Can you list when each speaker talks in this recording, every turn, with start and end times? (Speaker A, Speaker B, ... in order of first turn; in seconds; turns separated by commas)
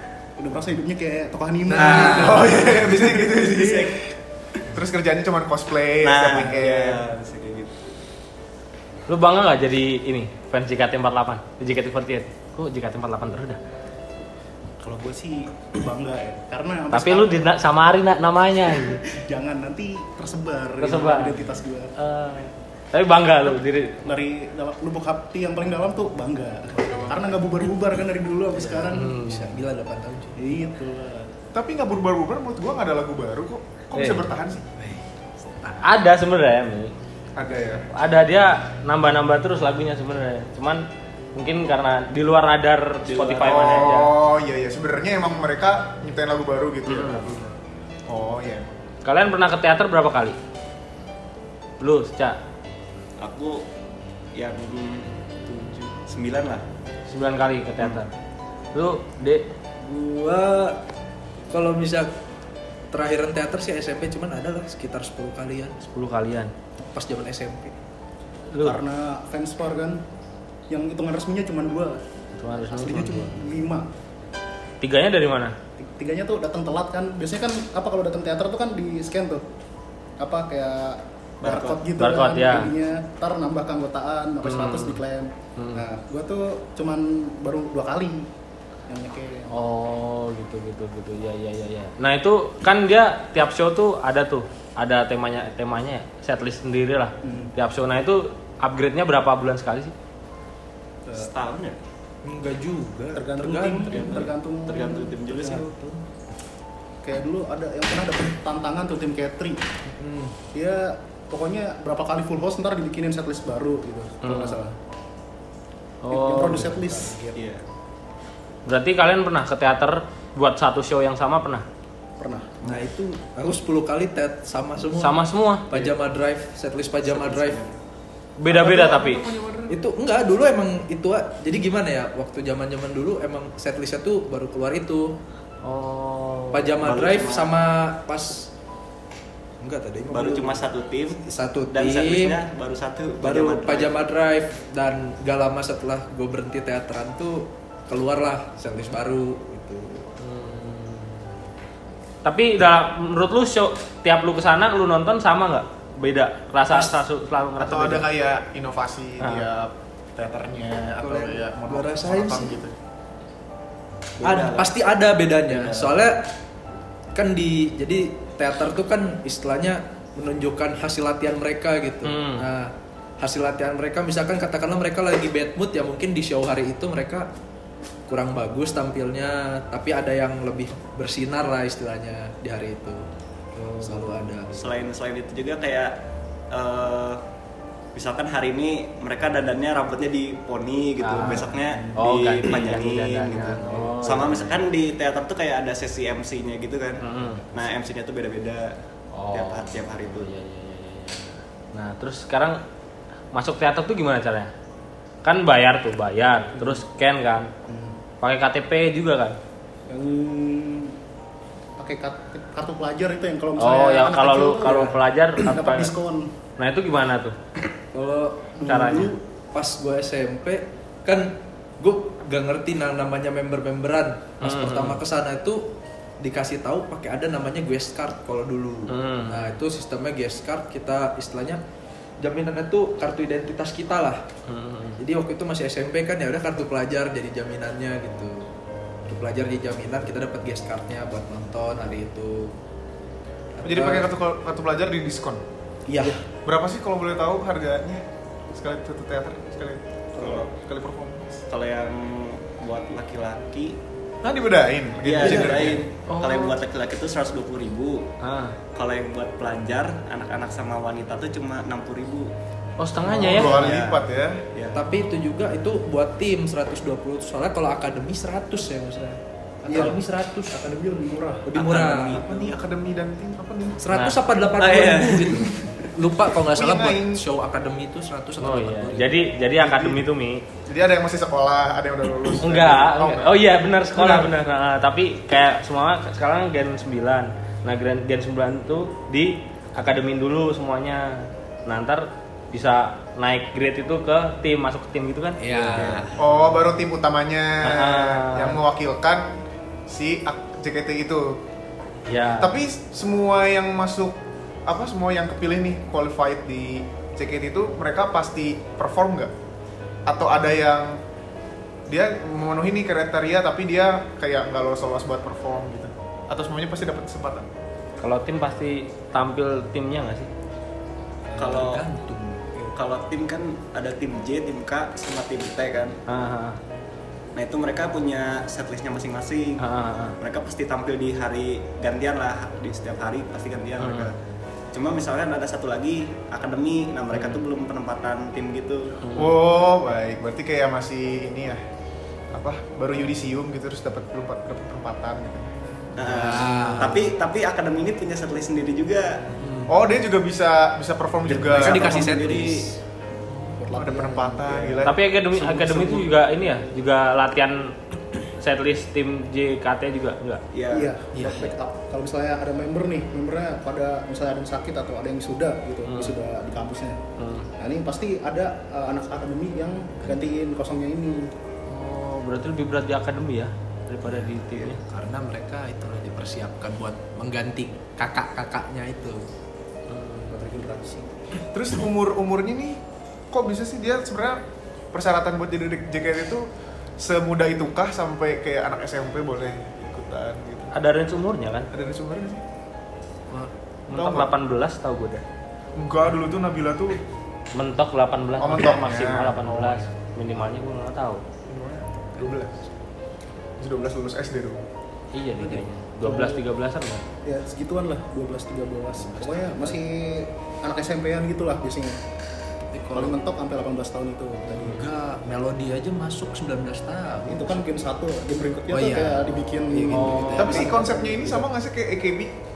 Speaker A: 0.4-3.9, Speaker B: 1.7-2.7, Speaker C: 1.8-2.1, Speaker D: 2.0-4.0, Speaker C: 3.6-3.9, Speaker D: 4.7-7.0, Speaker C: 6.0-7.8, Speaker E: 9.1-13.6, Speaker A: 14.8-17.5, Speaker E: 16.9-19.0, Speaker A: 19.1-21.9, Speaker E: 20.8-21.3, Speaker B: 21.3-21.6, Speaker E: 22.0-24.1, Speaker A: 24.0-29.1, Speaker B: 28.5-30.5, Speaker E: 28.9-29.5, Speaker A: 30.4-31.3, Speaker D: 31.5-34.7, Speaker E: 34.0-34.2, Speaker B: 34.8-35.8, Speaker E: 35.8-36.9, Speaker D: 37.4-37.9, Speaker E: 37.9-44.1, Speaker C: 43.1-43.9, Speaker D: 43.4-47.3, Speaker E: 46.9-47.4, Speaker D: 48.1-48.7, Speaker E: 49.0-50.4, Speaker E: 51.8-52.4, Speaker C: 53.2-53.6, Speaker C: 54.3-56.6, Speaker E: 57.1-58.1, Speaker E: 58.7-59.4, Speaker B: 59.8-60.8, Speaker B: 61.5-62.1, Speaker B: 62.9-65.8, Speaker E: 65.8-66.5, Speaker B: 66.8-67.7, Speaker E: 68.5-68.8, Speaker A: 68.6-70.0, Speaker A: 70.7-72.0, Speaker E: 72.3-73.4, Speaker A: 72.6-73.9, Speaker E: 74.8-75.5, Speaker A: 75.8-79.4, Speaker A: 80.2-88.3, Speaker C: 81.4-81.8, Speaker E: 82.0-82.7, Speaker E: 84.4-85.0, Speaker E: 85.6-85.8, Speaker A: 88.9-89.5, Speaker E: 89.5-99.9, Speaker A: 97.2-97.5, Speaker C: 101.1-101.8, Speaker B: 102.2-104.3, Speaker A: 103.1-105.7, Speaker C: 103.9-105.6, Speaker B: 105.5-106.0, Speaker A: 107.0-109.6, Speaker B: 109.8-110.3, Speaker A: 110.5-114.8, Speaker E: 114.2-114.6, Speaker E: 116.0-116.8, Speaker A: 116.1-117.4, Speaker C: 117.3-117.6, Speaker E: 118.7-121.6, Speaker A: 122.2-122.6, Speaker B: 122.6-127.6, Speaker E: 125.0-125.6, Speaker C: 127.0-127.7, Speaker E: 128.4-129.2, Speaker D: 128.5-129.8, Speaker B: 129.7-135.1, Speaker E: 135.6-136.7, Speaker B: 136.5-138.5, Speaker C: 136.8-137.5, Speaker B: 139.6-140.7, Speaker C: 140.1-141.2, Speaker B: 141.2-142.4, Speaker C: 141.7-144.0, Speaker B: 143.2-150.1, Speaker E: 150.2-151.3, Speaker E: 152.2-158.1, Speaker D: 157.6-162.7, Speaker B: 161.0-162.6, Speaker C: 164.2-164.9, Speaker B: 164.2-166.3, Speaker C: 165.5-166.0, Speaker B: 167.1-177.3, Speaker E: 172.0-172.4, Speaker B: 178.1-183.1, Speaker E: 183.6-184.3, Speaker B: 183.8-184.8, Speaker C: 184.6-185.9, Speaker C: 186.5-187.2, Speaker C: 187.9-198.8, Speaker E: 191.0-191.4, Speaker B: 191.1-191.5, Speaker A: 191.2-191.9, Speaker E: 191.9-194.5, Speaker B: 193.7-194.4, Speaker E: 197.0-197.4, Speaker E: 199.1-202.6, Speaker C: 199.3-200.3, Speaker E: 203.3-204.5, Speaker E: 205.2-207.5, Speaker A: 207.7-208.0, Speaker E: 208.2-209.4, Speaker A: 209.9-210.9, Speaker A: 211.8-216.3, Speaker E: 213.6-215.9, Speaker E: 216.6-217.3, Speaker B: 217.9-225.6, Speaker A: 218.6-219.1, Speaker E: 218.7-219.2, Speaker E: 224.4-225.0, Speaker B: 226.2-231.6, Speaker E: 228.9-229.6, Speaker B: 232.2-234.2, Speaker E: 234.5-235.0, Speaker B: 235.0-238.4, Speaker B: 239.1-242.6, Speaker B: 243.6-244.1, Speaker D: 243.6-245.4, Speaker B: 245.9-246.2, Speaker D: 246.4-251.4, Speaker C: 250.2-250.5, Speaker C: 251.5-253.8, Speaker D: 254.2-255.8, Speaker C: 255.0-258.1, Speaker E: 256.1-256.6, Speaker E: 258.2-258.6, Speaker C: 258.7-262.3, Speaker E: 262.8-263.6, Speaker D: 263.1-264.4, Speaker C: 263.2-264.8, Speaker B: 264.7-270.6, Speaker A: 269.6-271.5, Speaker B: 271.5-272.2, Speaker C: 271.5-272.6, Speaker D: 272.1-273.9, Speaker B: 273.8-279.3, Speaker C: 274.6-275.8, Speaker D: 276.5-277.2, Speaker E: 278.4-280.4, Speaker D: 279.6-280.0, Speaker D: 280.7-284.3, Speaker E: 282.4-295.9, Speaker B: 295.4-296.2, Speaker C: 295.8-296.1, Speaker D: 296.2-299.3, Speaker E: 297.6-298.6, Speaker D: 299.9-301.4, Speaker E: 302.1-302.5, Speaker D: 302.4-309.3, Speaker D: 310.1-311.0, Speaker D: 311.9-317.5, Speaker E: 318.0-320.3, Speaker B: 321.3-322.7, Speaker C: 321.4-321.8, Speaker C: 322.7-325.9, Speaker E: 326.1-326.6, Speaker C: 327.4-329.6, Speaker E: 329.6-330.2, Speaker C: 330.2-334.1, Speaker E: 333.8-334.1, Speaker C: 334.7-339.0, Speaker E: 337.1-337.4, Speaker E: 339.0-339.3, Speaker D: 339.2-341.6, Speaker D: 342.3-345.6, Speaker C: 346.0-349.3, Speaker B: 346.0-347.1, Speaker D: 349.7-352.1, Speaker C: 351.3-352.7, Speaker B: 351.4-352.8, Speaker A: 353.6-354.8, Speaker D: 353.7-355.0, Speaker E: 354.8-357.8, Speaker E: 358.4-360.4, Speaker C: 360.5-360.9, Speaker A: 360.7-367.0, Speaker B: 361.1-361.6, Speaker E: 365.8-366.2, Speaker E: 367.2-367.5, Speaker A: 367.6-371.3, Speaker E: 371.7-374.8, Speaker B: 374.1-379.2, Speaker E: 379.9-380.4, Speaker A: 380.3-381.1, Speaker D: 381.5-382.8, Speaker D: 383.3-384.4, Speaker D: 384.9-386.5, Speaker D: 387.0-390.7, Speaker E: 390.7-391.7, Speaker D: 391.7-392.4, Speaker E: 393.9-395.2, Speaker D: 393.9-394.3, Speaker D: 395.8-397.0, Speaker E: 397.6-401.2, Speaker D: 398.4-399.9, Speaker D: 401.5-402.6, Speaker D: 403.6-404.6, Speaker E: 405.1-407.1, Speaker A: 406.0-406.4, Speaker A: 407.2-412.0, Speaker B: 408.9-409.8, Speaker B: 412.7-413.2, Speaker A: 412.9-414.8, Speaker B: 414.5-417.6, Speaker A: 417.2-421.4, Speaker B: 418.7-420.7, Speaker E: 419.9-420.6, Speaker D: 420.4-422.3